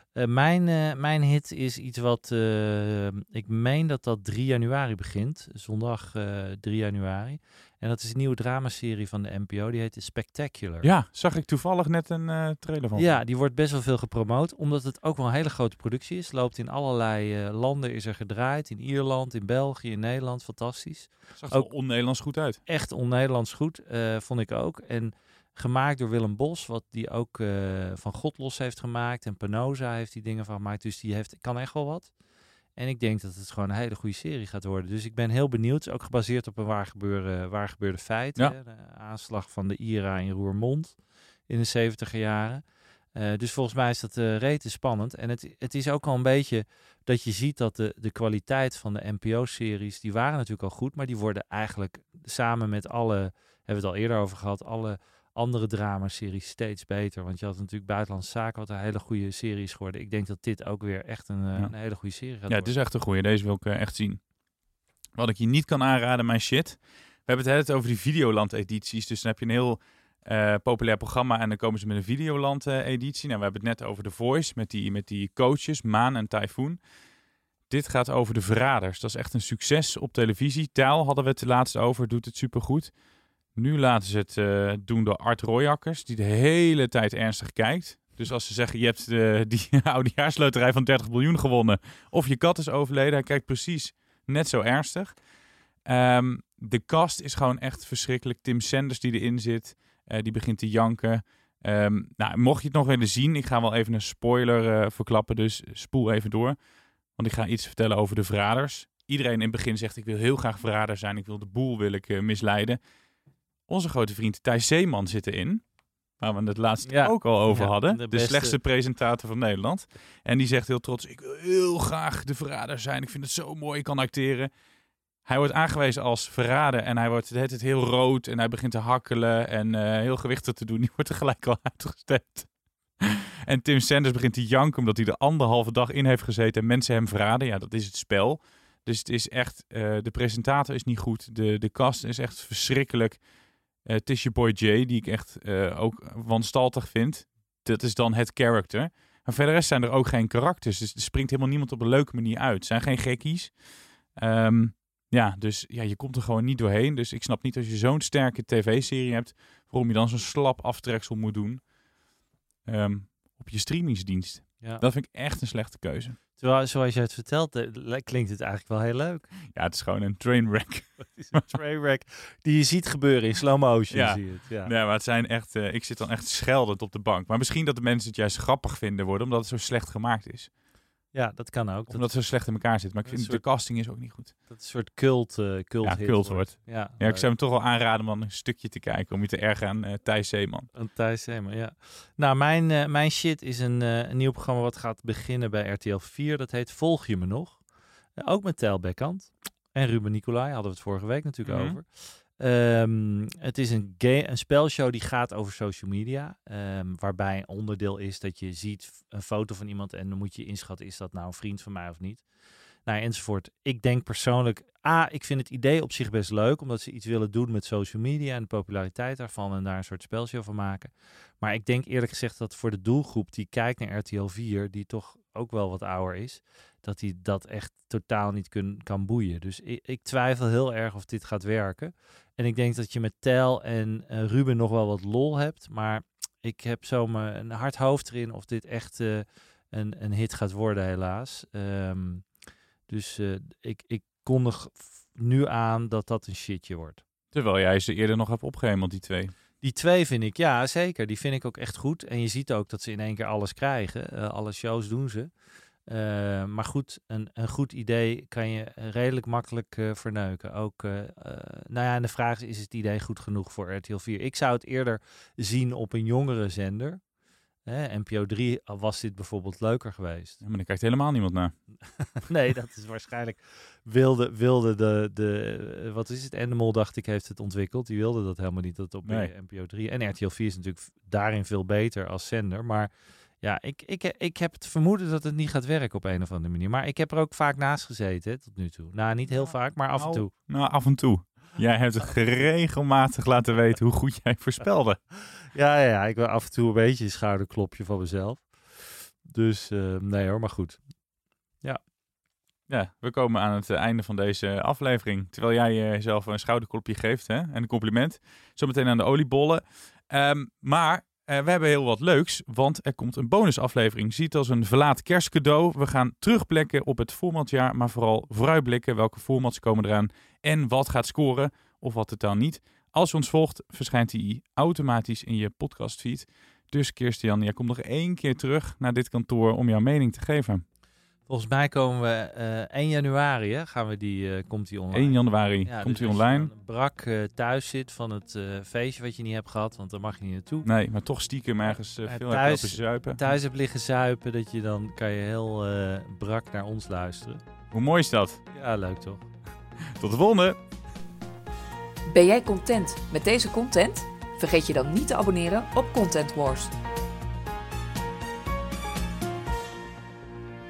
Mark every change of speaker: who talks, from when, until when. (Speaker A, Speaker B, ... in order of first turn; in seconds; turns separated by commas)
Speaker A: 0.2-10.9, Speaker B: 10.8-13.2, Speaker A: 12.9-21.7, Speaker B: 21.4-22.6, Speaker A: 22.7-32.1, Speaker A: 32.8-41.0, Speaker A: 41.5-42.6, Speaker A: 43.1-62.7, Speaker B: 62.5-64.2, Speaker B: 65.2-76.8, Speaker B: 77.7-82.9, Speaker B: 83.5-95.2, Speaker B: 95.9-106.6, Speaker B: 107.1-112.8, Speaker B: 113.7-115.6, Speaker B: 116.2-124.5, Speaker A: 116.9-118.6, Speaker B: 125.2-143.2, Speaker B: 143.8-153.6, Speaker B: 154.2-161.7, Speaker B: 162.7-166.2, Speaker A: 166.4-169.3, Speaker B: 169.5-171.4, Speaker A: 171.0-174.7, Speaker B: 173.9-180.5, Speaker A: 181.1-182.1, Speaker B: 181.9-184.3, Speaker A: 183.1-183.4, Speaker A: 184.5-187.2, Speaker B: 185.8-190.7, Speaker A: 190.7-197.6, Speaker A: 198.2-212.2, Speaker B: 201.4-201.8, Speaker A: 212.9-242.2, Speaker A: 242.9-247.0, Speaker B: 247.3-249.3, Speaker A: 249.6-255.3, Speaker A: 255.9-267.0, Speaker A: 267.7-270.4, Speaker B: 270.4-271.6, Speaker A: 272.3-290.3, Speaker B: 289.3-295.0, Speaker A: 295.5-300.8, Speaker B: 302.7-330.6, Speaker A: 331.3-340.7, Speaker B: 334.9-336.5, Speaker B: 340.6-343.2, Speaker A: 342.1-347.4, Speaker B: 347.7-348.4, Speaker A: 348.5-349.3, Speaker B: 350.0-350.6, Speaker C: 352.1-356.7